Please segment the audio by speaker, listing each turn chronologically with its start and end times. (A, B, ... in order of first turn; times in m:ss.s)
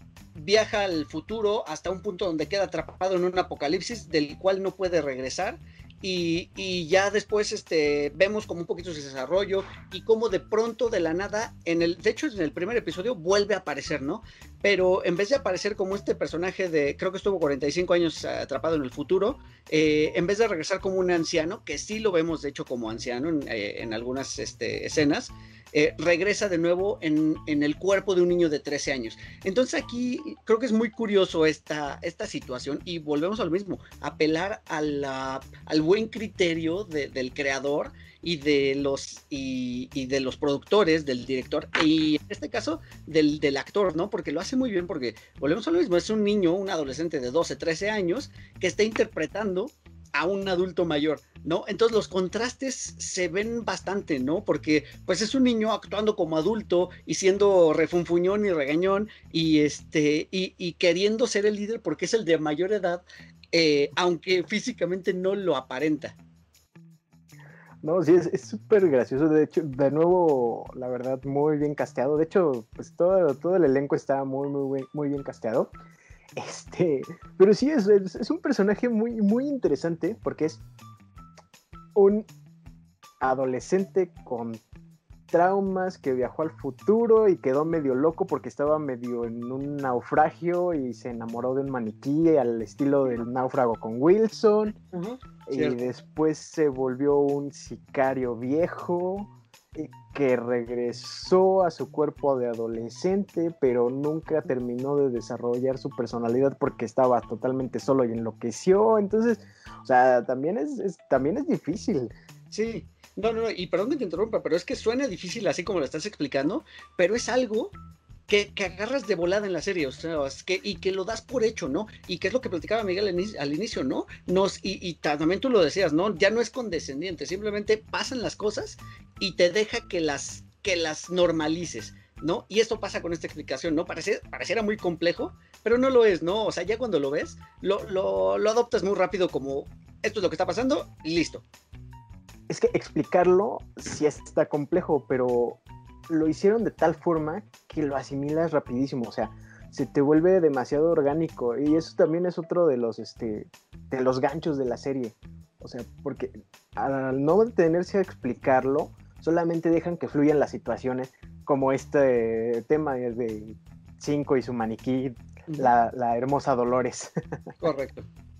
0:00.4-1:06.2 A
1:07.8-1:15.7 B
1:16.4-1:20.6 B
1:22.0-1:22.3 B
1:23.2-1:24.6 B
1:25.3-1:34.8 B
1:34.9-1:35.8 A
1:35.5-1:52.1 B
1:52.5-1:57.7 A
1:58.3-2:21.4 A
2:22.5-2:47.1 B
2:47.6-2:48.1 A